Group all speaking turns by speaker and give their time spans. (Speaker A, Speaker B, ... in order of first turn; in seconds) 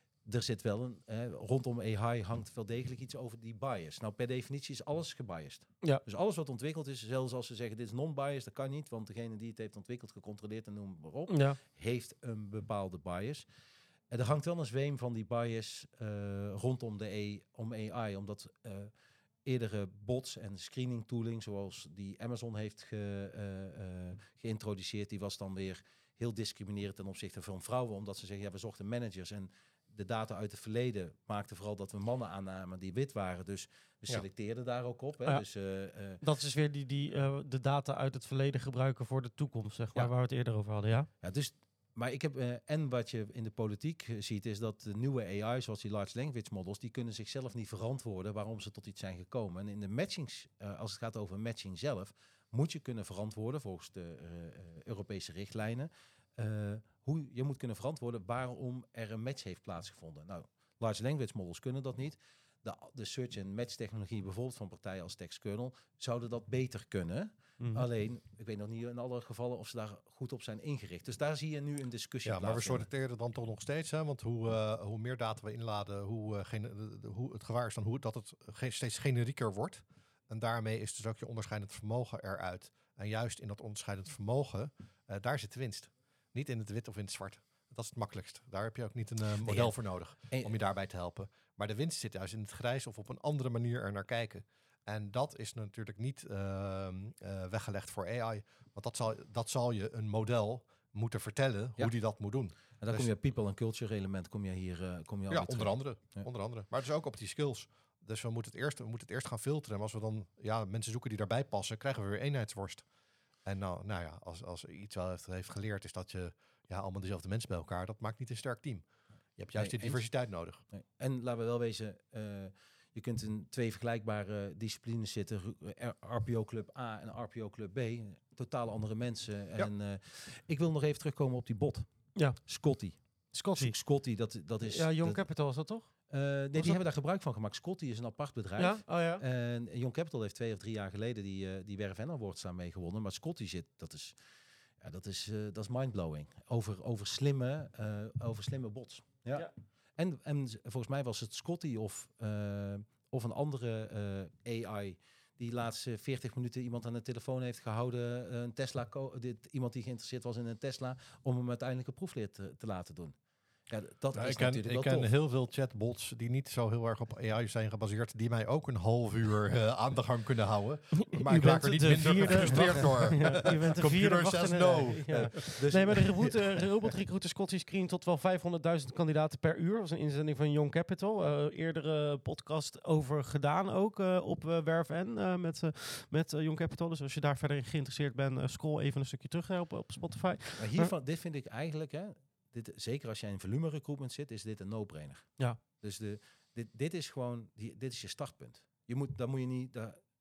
Speaker A: 0.2-13.5, 14.1-18.9, 19.4-36.2, 41.2-72.9, 89.4-89.8, 102.8-106.3, 119.5-120.1, 120.7-135.3, 136.1-144.1, 144.8-165.1, 175.1-176.3, 190.6-200.0
Speaker B: 11.3-11.6, 36.2-41.1, 67.6-67.8, 132.1-133.8, 134.6-136.8, 138.6-139.2, 171.0-190.9
Speaker C: 72.2-103.1, 105.3-112.8, 113.4-118.8, 119.4-120.6, 164.1-175.6